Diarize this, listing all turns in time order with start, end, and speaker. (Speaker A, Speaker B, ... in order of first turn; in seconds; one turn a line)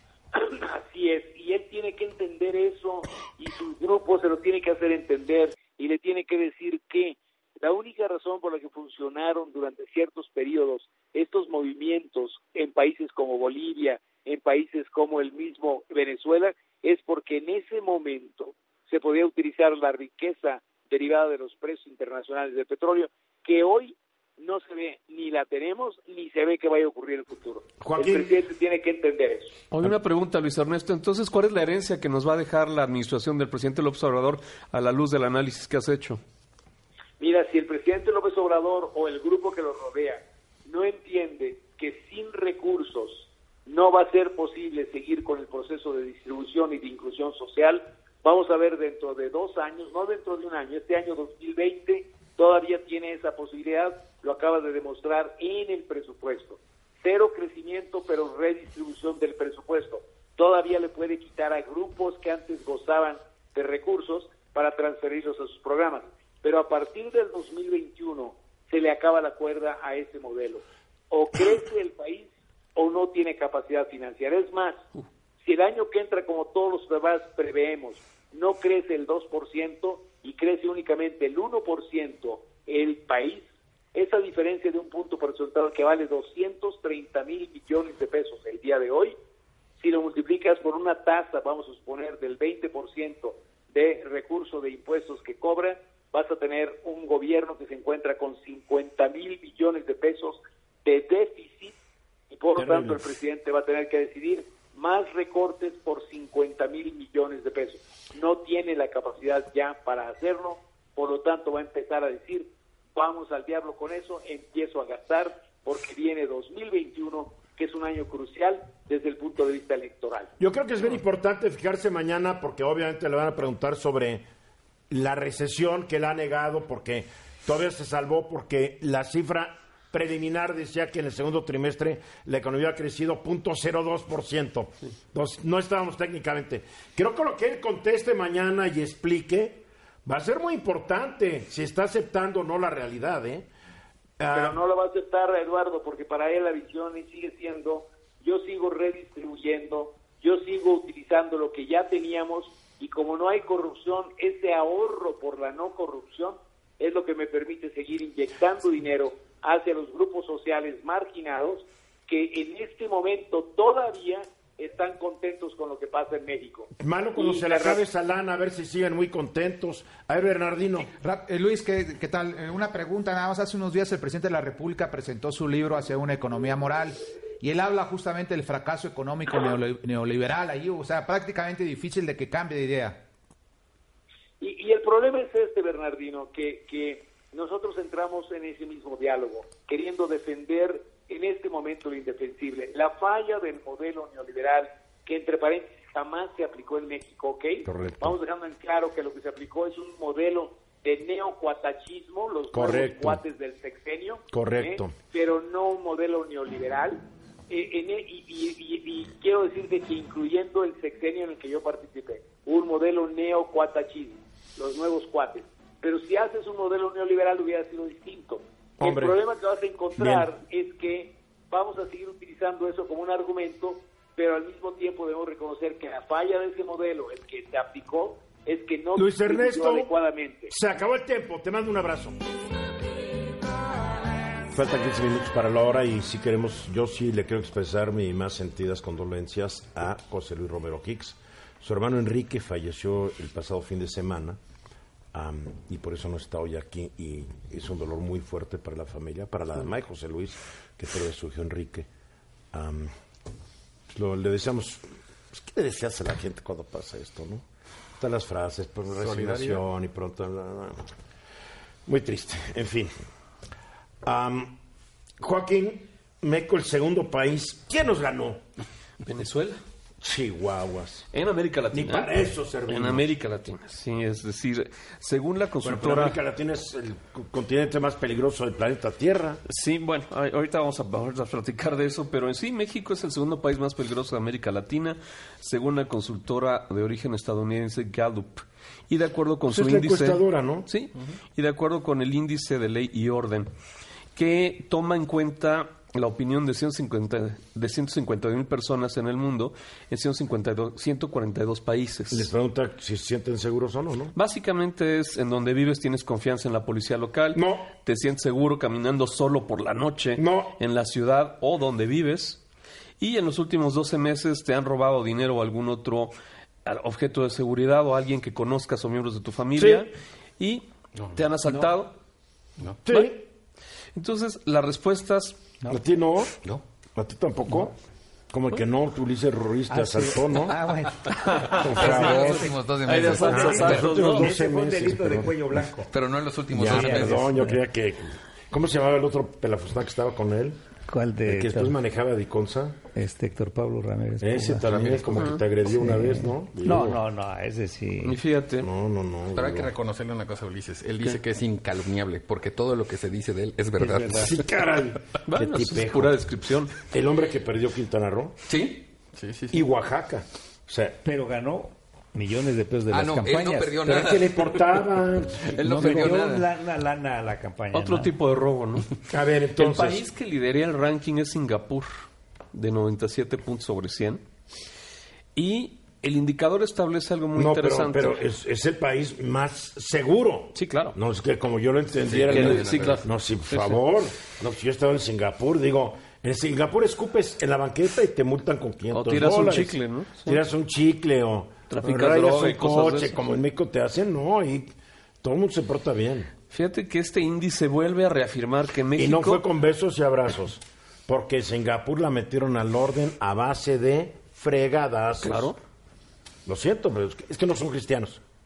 Speaker A: 0.3-29.6
Speaker B: 27.8-28.4
Speaker C: 29.7-36.2
Speaker A: 37.2-74.8
Speaker A: 75.4-89.2
Speaker A: 89.8-101.8
Speaker A: 102.3-120.3
Speaker B: 102.6-103.0
Speaker B: 120.4-124.3
Speaker B: 124.9-143.5
Speaker B: 144.2-144.6
Speaker A: 144.3-167.8
Speaker B: 166.8-170.9
Speaker D: 171.0-183.0
Speaker A: 184.4-230.5
Speaker B: 197.7-198.2
Speaker B: 202.5-203.2
Speaker B: 204.3-205.0
Speaker B: 218.8-219.2
Speaker B: 220.0-220.3
Speaker B: 229.0-229.9
Speaker B: 230.5-232.2
Speaker B: 234.5-244.4
Speaker B: 245.1-251.9
Speaker B: 252.5-252.9
Speaker B: 253.9-257.4
Speaker B: 258.0-260.9
Speaker E: 259.0-259.6
Speaker B: 261.9-262.9
Speaker B: 264.0-264.6
Speaker B: 265.2-268.4
Speaker C: 269.0-269.6
Speaker B: 270.0-271.1
Speaker C: 271.1-272.1
Speaker B: 271.7-273.1
Speaker C: 272.7-276.2
Speaker B: 275.6-279.4
Speaker C: 279.5-293.5
Speaker B: 289.5-290.7
Speaker C: 294.1-302.3
Speaker B: 302.1-304.1
Speaker C: 304.1-312.4
Speaker B: 307.3-307.7
Speaker B: 310.2-310.6
Speaker C: 313.0-316.1
Speaker C: 316.6-321.9
Speaker B: 319.6-319.8
Speaker B: 322.9-323.2
Speaker C: 322.9-323.1
Speaker C: 323.9-325.6
Speaker B: 325.7-326.4
Speaker B: 327.0-327.8
Speaker B: 328.3-330.6
Speaker F: 329.7-332.4
Speaker C: 331.2-334.3
Speaker E: 331.5-334.1
Speaker B: 331.6-332.5
Speaker F: 333.1-335.9
Speaker B: 333.2-335.3
Speaker E: 335.9-337.3
Speaker B: 336.5-340.6
Speaker F: 336.6-337.6
Speaker F: 340.9-341.8
Speaker B: 341.3-342.8
Speaker F: 342.9-344.7
Speaker B: 344.2-347.0
Speaker E: 344.6-345.4
Speaker C: 345.2-345.4
Speaker F: 345.7-348.2
Speaker C: 348.0-348.7
Speaker B: 348.6-349.7
Speaker E: 349.4-354.5
Speaker F: 353.8-354.4
Speaker B: 354.1-356.2
Speaker C: 355.3-356.8
Speaker B: 356.8-358.4
Speaker E: 358.5-359.6
Speaker B: 359.5-361.0
Speaker F: 361.0-363.8
Speaker E: 362.9-364.8
Speaker B: 363.8-366.1
Speaker E: 365.4-366.5
Speaker F: 365.6-368.1
Speaker C: 367.7-369.0
Speaker B: 369.1-370.1
Speaker C: 369.6-371.9
Speaker C: 372.5-374.2
Speaker C: 375.4-378.2
Speaker B: 377.4-394.7
Speaker C: 380.6-381.0
Speaker E: 382.1-383.1
Speaker C: 382.3-383.8
Speaker C: 388.9-390.4
Speaker C: 391.7-393.2
Speaker B: 395.2-396.3
Speaker C: 396.5-399.5
Speaker B: 399.0-405.5
Speaker C: 405.2-405.6
Speaker B: 406.5-408.2